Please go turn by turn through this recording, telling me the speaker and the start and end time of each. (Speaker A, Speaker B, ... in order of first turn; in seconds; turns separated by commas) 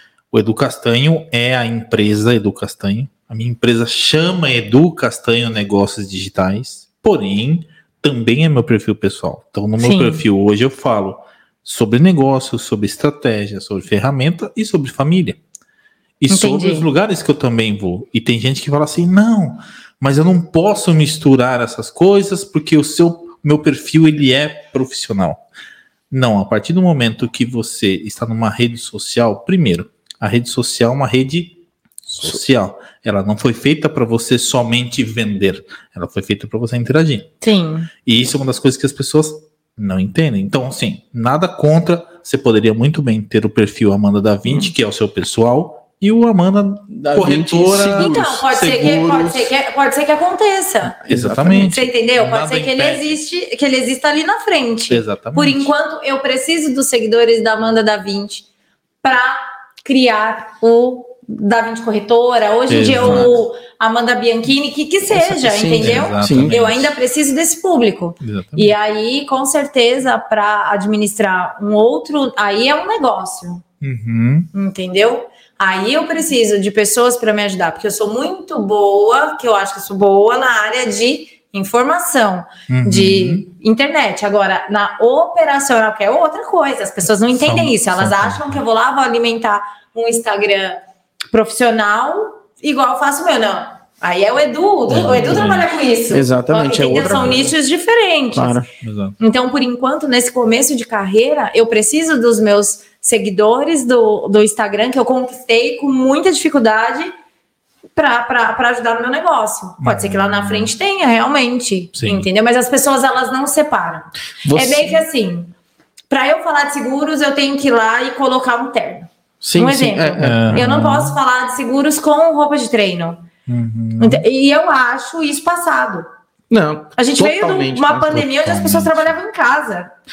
Speaker A: 0.3-15.4, Speaker B: 9.8-10.2, Speaker A: 16.2-25.4, Speaker B: 16.3-16.9, Speaker A: 26.1-37.3, Speaker B: 37.4-37.9, Speaker A: 38.0-49.5, Speaker C: 46.9-48.2, Speaker B: 47.8-58.5, Speaker C: 51.0-51.8, Speaker A: 51.1-53.0, Speaker A: 54.9-55.7, Speaker B: 59.0-73.6, Speaker A: 62.7-63.3, Speaker C: 63.0-63.4, Speaker C: 65.2-66.6, Speaker A: 65.8-66.9, Speaker A: 68.2-68.8, Speaker A: 73.8-74.5, Speaker B: 74.5-90.8, Speaker A: 82.7-83.5, Speaker A: 87.3-88.6, Speaker B: 91.3-98.6, Speaker A: 94.9-95.7, Speaker C: 96.1-97.5, Speaker C: 98.3-98.7, Speaker A: 98.8-99.2, Speaker B: 99.2-107.1, Speaker B: 108.0-115.5, Speaker A: 109.8-110.7, Speaker A: 112.0-112.3, Speaker C: 114.4-115.0, Speaker B: 116.1-123.2, Speaker C: 119.4-120.7, Speaker A: 120.2-121.2, Speaker A: 123.5-124.2, Speaker B: 124.0-126.0, Speaker C: 126.5-128.3, Speaker B: 127.0-129.9, Speaker A: 128.2-129.1